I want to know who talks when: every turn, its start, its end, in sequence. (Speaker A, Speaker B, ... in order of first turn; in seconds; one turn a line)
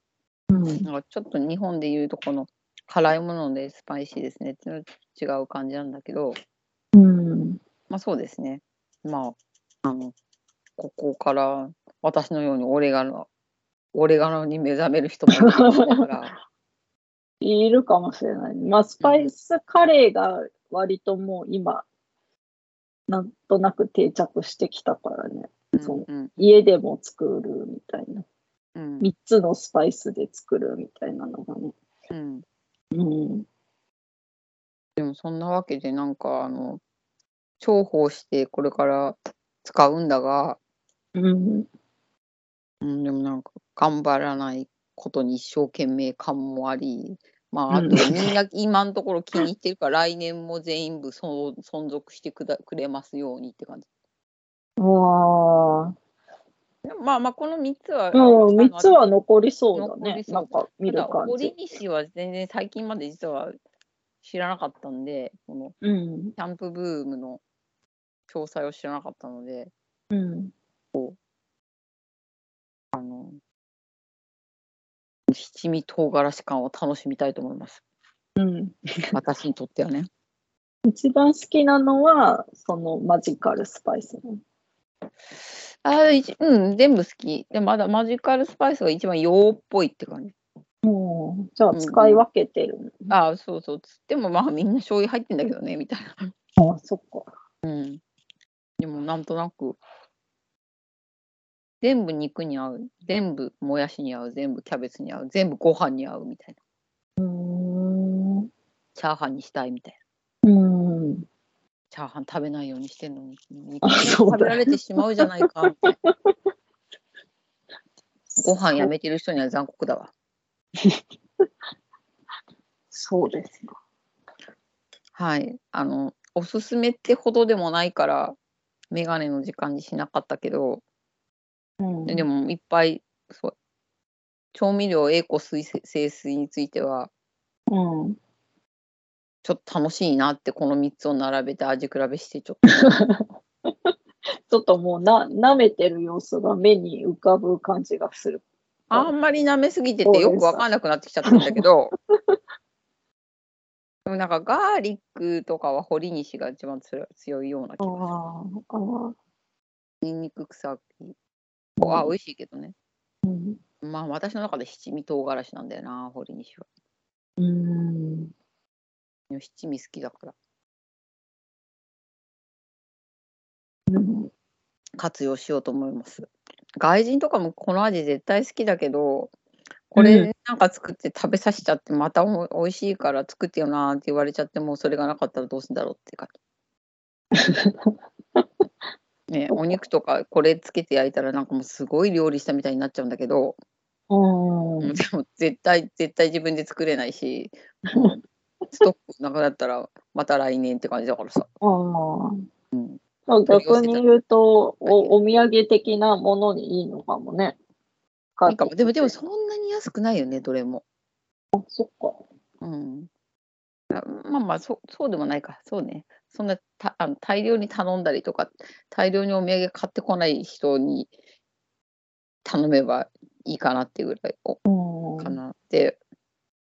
Speaker A: 0.5-0.8
Speaker B: 0.8-6.3
Speaker A: 6.9-7.6
Speaker B: 7.9-10.1
Speaker B: 10.8-13.3
Speaker B: 13.9-16.3
Speaker A: 15.3-16.1
Speaker A: 17.4-21.9
Speaker B: 19.0-19.3
Speaker A: 23.1-28.2
Speaker B: 25.7-26.3
Speaker B: 28.8-29.1
Speaker A: 29.0-31.7
Speaker B: 32.1-32.4
Speaker A: 32.9-33.5
Speaker B: 35.0-36.8
Speaker B: 37.6-40.6
Speaker A: 41.1-41.7
Speaker B: 42.8-53.9
Speaker A: 47.7-48.3
Speaker A: 54.8-55.9
Speaker B: 56.8-59.0
Speaker A: 58.1-61.5
Speaker B: 59.7-63.5
Speaker B: 64.2-65.7
Speaker A: 65.8-66.3
Speaker B: 66.3-67.4
Speaker B: 68.3-69.7
Speaker A: 70.1-70.5
Speaker B: 72.9-73.4
Speaker B: 75.3-77.8
Speaker A: 78.4-79.1
Speaker B: 79.1-80.1
Speaker A: 80.8-84.4
Speaker B: 85.8-90.3
Speaker A: 90.8-93.1
Speaker B: 91.7-92.2
Speaker B: 93.1-96.3
Speaker A: 96.6-97.3
Speaker B: 97.6-98.0
Speaker B: 98.8-99.8
Speaker B: 101.8-106.6
Speaker A: 107.2-108.5
Speaker B: 109.0-110.0
Speaker A: 110.4-111.2
Speaker B: 111.9-116.0
Speaker A: 113.8-114.6
Speaker A: 115.8-116.3
Speaker B: 118.4-120.1
Speaker A: 122.9-123.8
Speaker B: 125.2-128.3
Speaker B: 128.9-130.8
Speaker A: 131.8-132.2
Speaker B: 132.1-133.5
Speaker B: 134.5-137.1
Speaker A: 137.7-138.2
Speaker B: 139.4-142.7
Speaker A: 142.7-143.9
Speaker A: 144.5-149.1
Speaker B: 148.9-151.9
Speaker A: 150.0-150.6
Speaker A: 151.3-151.6
Speaker B: 154.1-158.1
Speaker A: 157.8-159.2
Speaker B: 160.0-161.1
Speaker A: 161.8-162.1
Speaker B: 161.8-162.7
Speaker A: 163.2-163.6
Speaker B: 163.8-166.7
Speaker A: 167.4-168.3
Speaker B: 169.3-170.3
Speaker A: 173.9-174.3
Speaker B: 175.0-176.3
Speaker B: 176.8-179.3
Speaker B: 179.9-186.3
Speaker A: 180.0-180.3
Speaker A: 187.3-188.4
Speaker B: 189.3-193.6
Speaker A: 194.1-194.9
Speaker B: 194.8-198.2
Speaker B: 198.7-201.5
Speaker A: 201.6-202.4
Speaker B: 202.7-204.0
Speaker A: 203.3-207.6
Speaker B: 204.8-205.1
Speaker A: 208.4-209.1
Speaker B: 208.5-210.8
Speaker A: 211.5-212.2
Speaker B: 212.6-213.1
Speaker B: 213.9-221.1
Speaker B: 222.4-224.6
Speaker A: 224.7-225.4
Speaker B: 225.2-226.0